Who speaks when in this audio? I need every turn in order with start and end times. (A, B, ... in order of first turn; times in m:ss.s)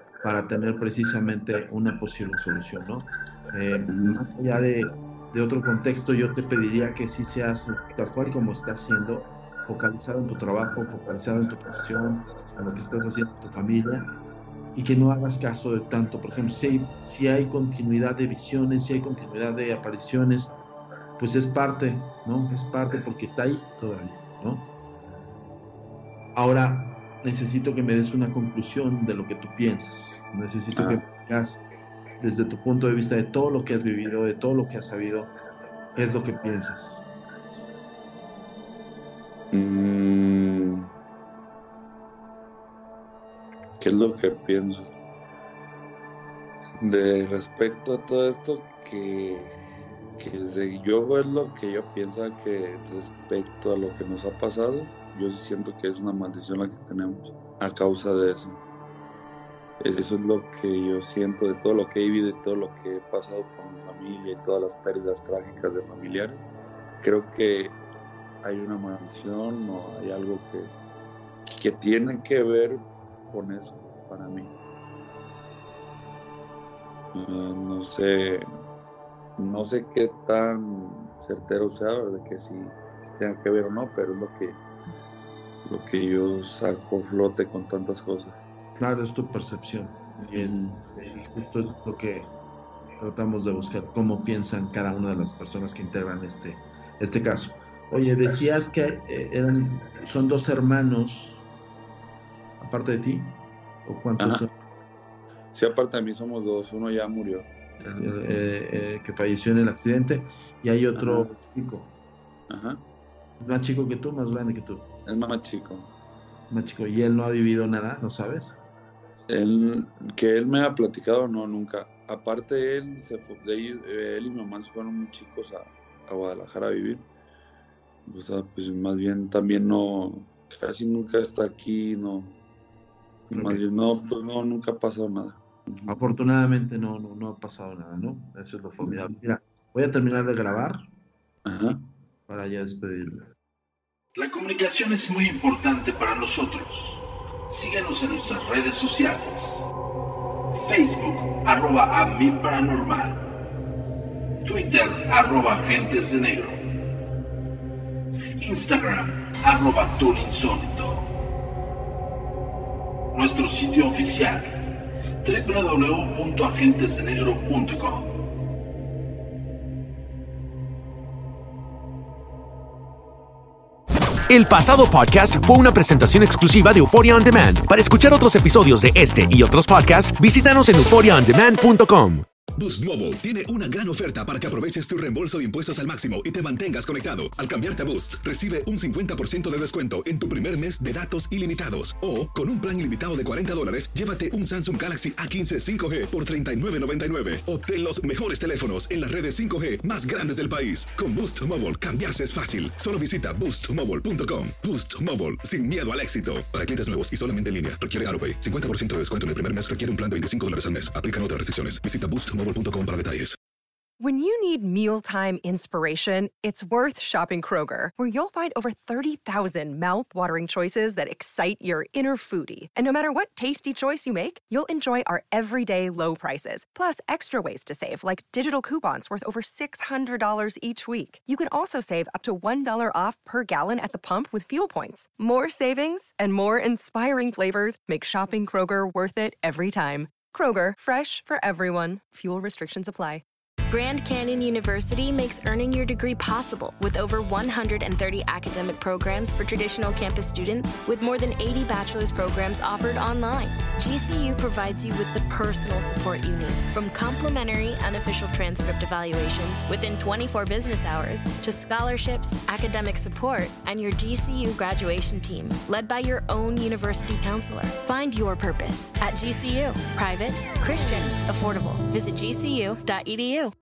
0:00.2-0:14.0 A
0:03.9-0:04.2 B
0:14.7-0:20.5 A
0:21.2-0:24.7 A
0:26.3-0:31.6 A
0:32.2-0:35.3 A
0:35.9-0:37.0 A
0:39.5-0:40.9 B
0:43.8-0:44.9 B
0:46.8-0:49.6 B
0:50.2-0:58.6 B
0:59.8-1:06.4 B
1:07.0-1:07.8 B
1:08.4-1:10.7 B
1:11.4-1:14.5 B
1:17.1-1:18.5 B
1:19.4-1:24.6 B
1:25.6-1:28.4 B
1:28.8-1:32.3 A
1:30.3-1:30.8 B
1:33.0-1:41.4 A
1:42.6-1:43.3 A
1:43.8-1:44.5 A
1:45.5-1:47.5 B
1:47.8-1:51.9 A
1:51.0-1:51.3 B
1:52.5-1:52.8 B
1:53.4-1:54.9 A
1:55.0-1:55.9 B
1:56.5-1:58.6 A
1:59.3-2:07.1 B
2:08.0-2:12.4 B
2:13.3-2:16.0 B
2:13.3-2:13.6 A
2:15.9-2:20.8 A
2:18.8-2:19.1 B
2:21.4-2:21.8 B
2:22.3-2:23.2 A
2:24.2-2:29.7 C
2:30.5-2:33.3 C
2:34.4-2:36.6 C
2:38.4-2:41.1 C
2:43.1-2:44.7 C
2:45.2-2:48.3 C
2:54.3-3:02.2 D
3:02.6-3:33.4 E
3:34.0-4:03.2 F
4:03.7-4:33.5 G